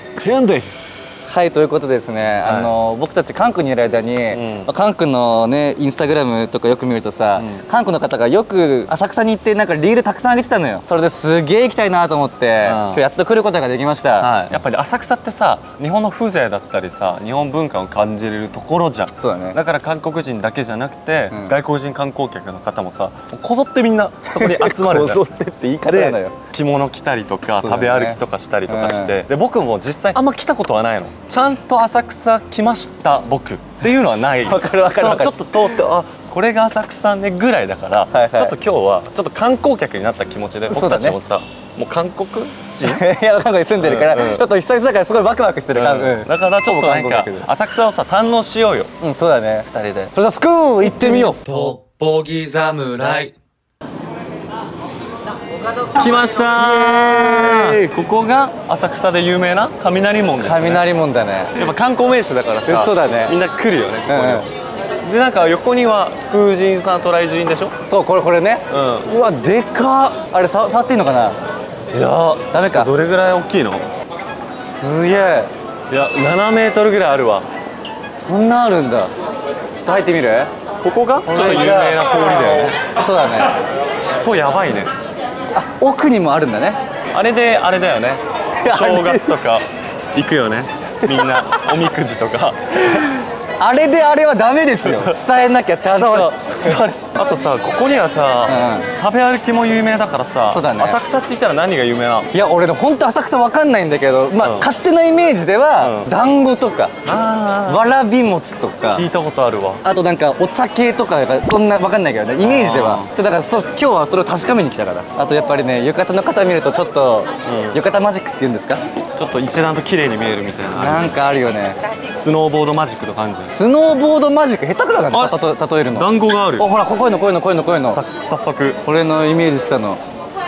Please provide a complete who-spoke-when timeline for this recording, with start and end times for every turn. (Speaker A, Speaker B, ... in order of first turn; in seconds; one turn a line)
Speaker A: 0.2-0.7
Speaker B: 1.3-14.5
Speaker A: 2.4-2.8
Speaker A: 4.3-4.7
Speaker A: 12.6-13.0
Speaker A: 14.2-25.3
Speaker B: 19.2-19.6
Speaker B: 24.3-26.4
Speaker A: 25.9-43.0
Speaker B: 27.5-29.2
Speaker B: 34.4-35.8
Speaker B: 38.1-38.6
Speaker B: 40.7-41.2
Speaker B: 42.8-47.5
Speaker A: 43.8-44.5
Speaker A: 45.7-48.9
Speaker B: 49.0-51.6
Speaker A: 49.7-50.1
Speaker A: 51.0-53.3
Speaker A: 55.9-60.9
Speaker B: 56.5-57.8
Speaker B: 60.4-61.6
Speaker A: 61.6-64.5
Speaker B: 62.6-63.4
Speaker B: 64.1-64.5
Speaker A: 65.0-67.8
Speaker B: 67.8-71.4
Speaker A: 68.7-69.1
Speaker A: 71.9-73.9
Speaker B: 72.5-72.9
Speaker B: 74.6-75.5
Speaker A: 75.9-77.5
Speaker B: 78.1-79.1
Speaker B: 79.8-80.5
Speaker A: 80.8-82.9
Speaker B: 81.2-83.6
Speaker A: 84.0-84.9
Speaker B: 85.5-86.8
Speaker A: 87.1-93.1
Speaker B: 88.6-89.3
Speaker B: 93.6-96.9
Speaker A: 94.8-95.2
Speaker A: 95.9-102.3
Speaker B: 98.5-98.9
Speaker B: 100.4-101.0
Speaker B: 102.3-106.9
Speaker A: 104.4-104.7
Speaker A: 105.8-106.1
Speaker A: 107.0-107.8
Speaker B: 107.7-109.1
Speaker A: 108.9-109.8
Speaker B: 109.8-118.8
Speaker A: 112.4-113.1
Speaker A: 117.5-117.8
Speaker A: 119.2-121.2
Speaker B: 120.8-121.8
Speaker A: 122.1-123.6
Speaker B: 123.4-128.0
Speaker A: 125.1-125.4
Speaker A: 125.9-126.7
Speaker A: 127.9-128.8
Speaker B: 128.8-130.0